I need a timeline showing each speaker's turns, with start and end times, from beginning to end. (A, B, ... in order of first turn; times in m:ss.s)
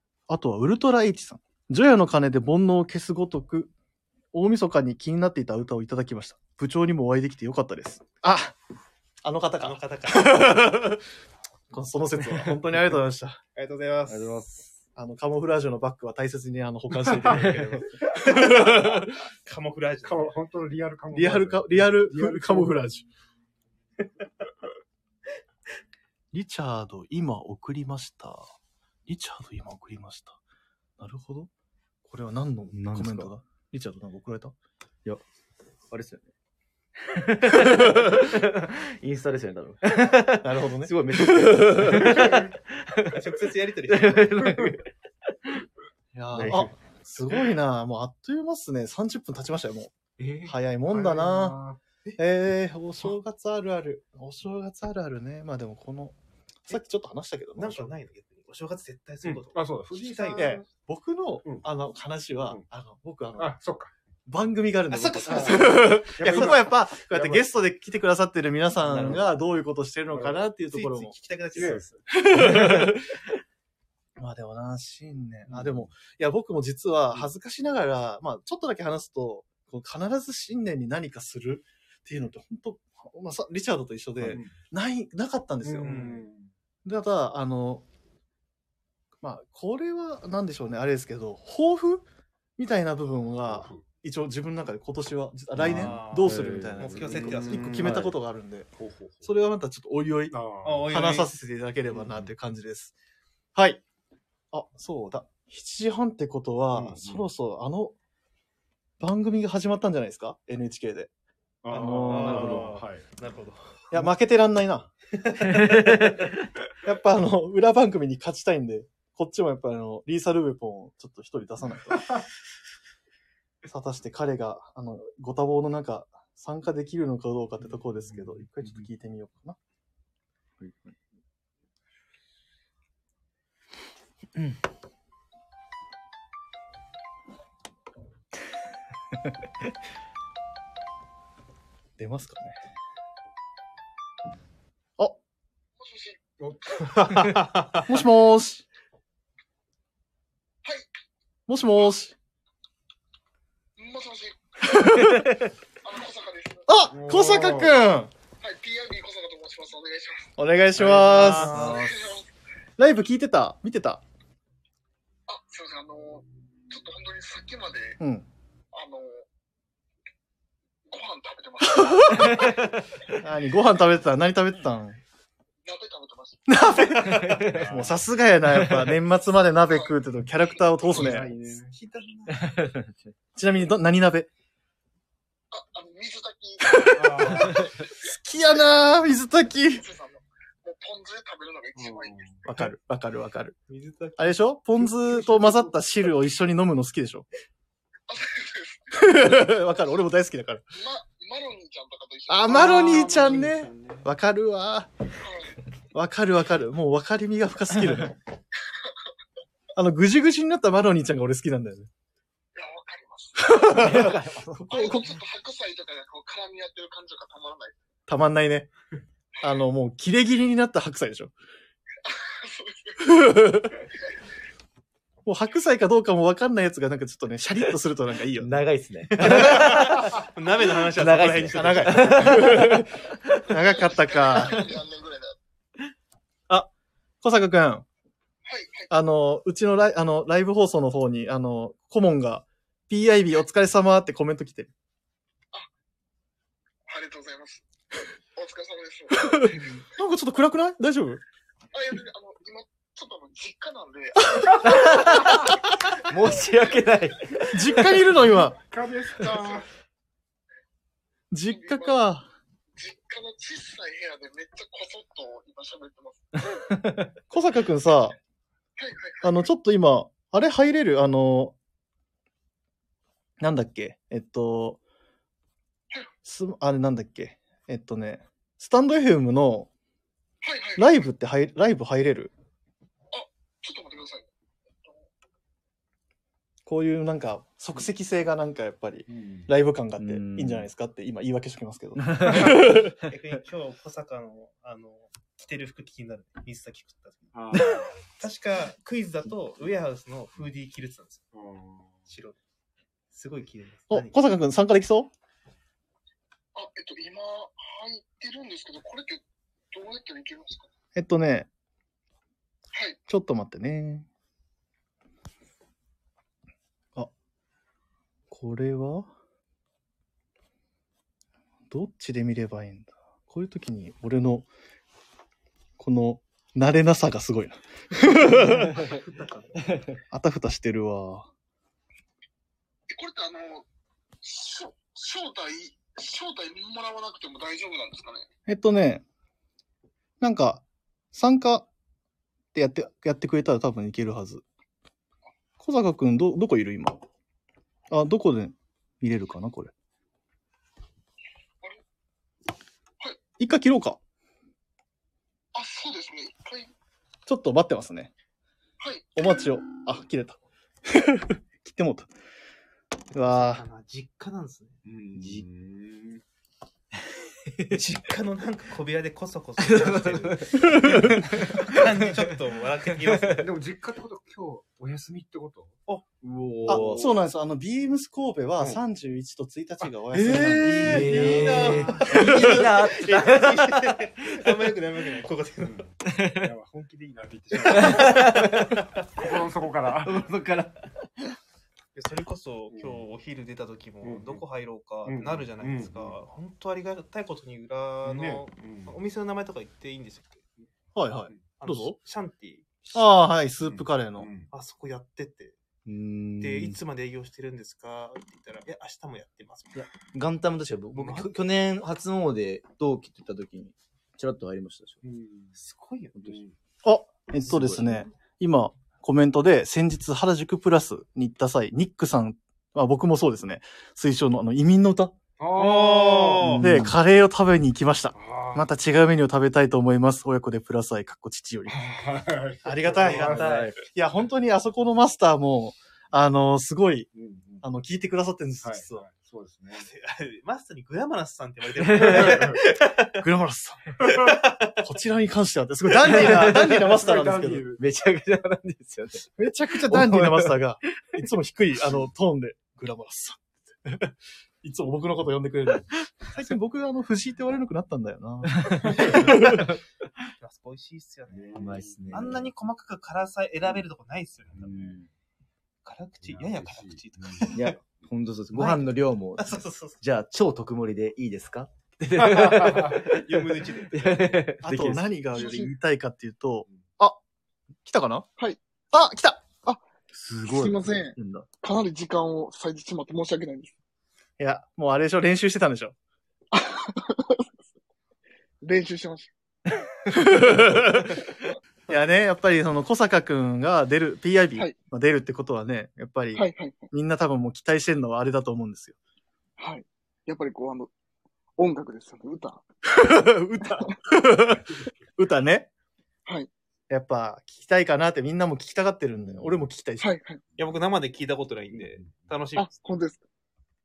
0:00.3-0:03.7 A
0:04.3-0:08.6 A
0:09.2-0:11.0 A
0:09.6-0:10.6 B
0:11.7-0:13.4 A
0:13.6-0:14.6 B
0:14.1-0:14.8 C
0:15.0-0:19.2 A
0:17.1-0:17.4 D
0:17.3-0:17.7 C
0:18.3-0:20.4 B
0:20.0-0:22.9 D
0:21.1-0:23.0 A
0:26.3-0:28.5 A
0:29.1-0:30.4 A
0:31.0-0:31.5 A
0:32.0-0:34.6 A
0:32.7-0:33.3 C
0:35.9-0:36.3 C
0:37.0-0:43.2 C
0:40.4-0:41.6 A
0:42.1-0:42.4 D
0:43.1-0:44.6 B
0:43.9-0:44.9 C
0:46.1-0:51.6 A
0:46.3-0:46.7 C
0:50.2-0:51.8 D
0:52.2-0:56.2 A
0:56.7-0:57.9 A
0:57.6-1:00.6 B
0:59.2-1:00.6 D
1:00.4-1:03.6 A
1:03.4-1:03.9 D
1:04.3-1:11.2 A
1:04.9-1:06.6 B
1:05.2-1:07.4 D
1:08.9-1:09.2 C
1:10.1-1:10.4 D
1:10.7-1:12.0 B
1:11.5-1:12.0 D
1:12.2-1:13.1 A
1:12.4-1:12.7 C
1:14.2-1:26.2 A
1:15.5-1:15.7 D
1:24.2-1:24.6 D
1:25.6-1:26.5 D
1:26.8-1:27.8 A
1:29.2-1:32.0 A
1:32.6-1:38.7 A
1:33.5-1:33.8 D
1:35.6-1:37.1 C
1:35.6-1:38.0 B
1:37.0-1:38.0 D
1:37.7-1:38.1 C
1:38.8-1:39.3 D
1:39.2-1:42.9 A
1:40.3-1:40.9 D
1:40.6-1:41.3 B
1:41.9-1:42.3 D
1:43.6-1:43.8 A
1:44.5-1:47.9 A
1:46.7-1:47.2 D
1:49.0-1:51.1 A
1:51.6-1:53.0 D
1:51.7-1:52.7 A
1:52.0-1:53.8 B
1:53.9-1:54.9 A
1:55.5-1:56.2 C
1:56.8-2:02.2 A
2:03.7-2:09.6 A
2:10.6-2:11.0 C
2:22.0-2:22.6 A
2:25.8-2:26.2 E
2:26.4-2:27.4 D
2:27.0-2:27.8 B
2:27.9-2:28.6 A
2:31.5-2:32.2 A
2:33.8-2:34.9 E
2:34.7-2:35.3 A
2:35.8-2:36.6 E
2:36.7-2:38.1 A
2:36.9-2:37.8 D
2:38.4-2:40.3 E
2:40.4-2:41.7 A
2:40.8-2:41.8 D
2:41.0-2:41.8 B
2:41.5-2:42.1 C
2:41.6-2:42.3 E
2:42.8-2:44.0 A
2:45.3-2:48.0 E
2:48.0-2:48.3 A
2:48.7-2:49.3 E
2:50.9-2:52.4 E
2:51.7-2:52.5 A
2:52.2-2:52.6 C
2:53.2-2:55.0 A
2:55.6-2:56.4 E
2:56.5-3:01.3 A
2:57.0-2:57.8 C
2:57.5-2:57.9 D
2:58.5-2:58.9 C
3:00.9-3:01.8 D
3:01.7-3:02.4 B
3:02.3-3:03.1 C
3:03.4-3:04.3 A
3:05.5-3:07.9 E
3:06.7-3:07.5 A
3:06.9-3:07.7 D
3:08.0-3:09.8 A
3:09.7-3:12.3 E
3:11.8-3:12.4 D
3:12.4-3:13.6 A
3:13.7-3:14.2 B
3:14.2-3:17.3 A
3:14.8-3:15.7 D
3:18.1-3:19.5 E
3:18.9-3:20.6 A
3:20.7-3:22.7 E
3:22.3-3:24.9 A
3:22.5-3:24.0 D
3:25.2-3:25.5 E
3:25.9-3:28.2 A
3:29.8-3:31.9 A
3:32.6-3:33.8 E
3:33.4-3:35.1 A
3:33.8-3:34.6 C
3:34.7-3:37.8 E
3:38.1-3:38.7 A
3:39.4-3:41.3 A
3:42.0-3:43.0 E
3:43.0-3:43.7 A
3:45.2-3:48.6 A
3:48.4-3:50.2 C
3:49.1-3:50.0 A
3:49.4-3:52.3 B
3:51.0-3:53.4 C
3:51.5-3:52.9 A
3:53.5-3:54.7 A
3:53.5-3:55.4 E
3:57.2-3:57.8 A
3:58.4-3:58.9 E
3:58.9-4:04.7 A
4:06.9-4:07.6 E
4:08.3-4:09.6 E
4:09.2-4:11.2 A
4:11.7-4:15.5 E
4:14.4-4:14.8 A
4:14.6-4:15.4 C
4:16.0-4:17.9 C
4:16.3-4:16.8 E
4:17.5-4:18.6 A
4:18.7-4:19.7 D
4:21.3-4:22.3 A
4:21.5-4:22.0 E
4:22.8-4:26.6 E
4:26.7-4:27.1 C
4:27.3-4:28.2 A
4:28.8-4:29.4 E
4:29.2-4:31.6 A
4:33.4-4:34.8 A
4:36.2-4:39.7 A
4:40.4-4:40.9 E
4:40.8-4:42.3 A
4:43.1-4:44.3 E
4:46.7-4:52.9 A
4:49.1-4:49.5 D
4:50.0-4:50.7 C
4:52.0-4:52.5 C
4:53.1-5:01.3 B
4:57.3-4:58.1 D
5:01.3-5:01.9 D
5:02.1-5:02.4 B
5:03.1-5:04.2 B
5:03.9-5:05.1 A
5:06.6-5:10.7 E
5:11.0-5:11.5 A
5:12.7-5:13.0 E
5:13.1-5:14.1 A
5:18.3-5:19.1 A
5:21.7-5:24.5 A
5:25.8-5:28.8 A
5:28.9-5:29.2 B
5:30.1-5:31.3 A
5:32.9-5:33.6 E
5:34.2-5:38.3 E
5:38.5-5:39.0 A
5:40.2-5:41.7 A
5:42.6-5:44.4 A
5:45.6-5:47.0 A
5:47.9-5:49.7 A
5:53.4-5:54.0 A
5:55.5-5:56.7 E
5:57.3-5:58.1 A
5:58.8-5:59.1 E
5:59.2-6:02.1 A
6:03.1-6:03.6 A
6:03.2-6:04.8 B
6:04.8-6:06.2 D
6:05.2-6:05.5 C
6:07.7-6:13.5 B
6:09.6-6:11.9 C
6:10.7-6:11.1 A
6:13.1-6:13.4 C
6:13.4-6:15.8 D
6:16.2-6:17.1 C
6:16.7-6:22.4 A
6:16.7-6:17.0 D
6:20.1-6:24.1 C
6:20.4-6:22.1 D
6:20.8-6:25.9 B
6:25.6-6:28.4 D
6:26.1-6:26.4 C
6:27.7-6:28.8 C
6:29.2-6:30.2 D
6:30.0-6:30.8 C
6:32.0-6:40.5 B
6:32.7-6:33.0 D
6:34.0-6:34.4 D
6:35.1-6:36.2 D
6:38.0-6:39.0 D
6:41.0-6:42.0 A
6:41.6-6:42.9 B
6:42.9-6:44.3 A
6:43.6-6:44.5 D
6:44.5-6:45.6 B
6:45.9-6:46.8 C
6:46.4-6:49.8 B
6:49.7-6:55.0 C
6:50.9-6:51.3 B
6:55.0-6:55.6 D
6:55.6-6:56.4 B
6:56.2-6:56.5 D
6:56.8-7:05.2 A
6:57.4-6:58.1 C
7:05.4-7:06.6 D
7:05.6-7:06.6 B
7:06.4-7:07.0 C
7:06.6-7:11.8 A
7:08.2-7:08.6 D
7:11.7-7:13.7 D
7:12.6-7:17.1 A
7:13.1-7:13.7 B
7:13.2-7:13.8 C
7:17.1-7:17.7 D
7:17.6-7:19.0 A
7:18.6-7:19.9 D
7:19.7-7:22.9 B
7:21.8-7:22.4 C
7:22.0-7:22.6 D
7:23.2-7:24.0 A
7:24.0-7:24.3 D
7:24.8-7:27.7 A
7:26.0-7:26.8 C
7:26.2-7:27.8 D
7:27.8-7:29.3 C
7:29.4-7:34.1 A
7:29.8-7:30.6 C
7:34.6-7:39.7 A
7:38.6-7:39.8 C
7:40.4-7:44.7 B
7:41.3-7:42.4 D
7:41.6-7:42.5 C
7:44.5-7:45.0 D
7:44.6-7:45.0 C
7:45.8-7:47.7 B
7:46.2-7:47.6 D
7:47.5-7:53.4 C
7:48.5-7:50.0 B
7:52.2-7:53.2 D
7:53.1-7:54.3 B
7:53.9-7:55.1 C
7:54.6-7:57.2 A
7:55.4-7:55.7 E
7:57.8-7:58.3 A
7:58.9-7:59.5 A
8:00.2-8:00.8 C
8:00.5-8:03.7 E
8:01.2-8:01.4 A
8:04.4-8:06.0 A
8:06.5-8:07.5 E
8:08.6-8:09.3 E
8:10.1-8:11.1 A
8:11.9-8:19.0 A
8:16.4-8:16.9 E
8:19.6-8:20.9 E
8:21.6-8:22.6 E
8:22.9-8:25.7 A
8:26.9-8:30.1 A
8:30.0-8:30.4 E
8:30.6-8:32.7 B
8:31.8-8:32.1 D
8:32.6-8:33.2 E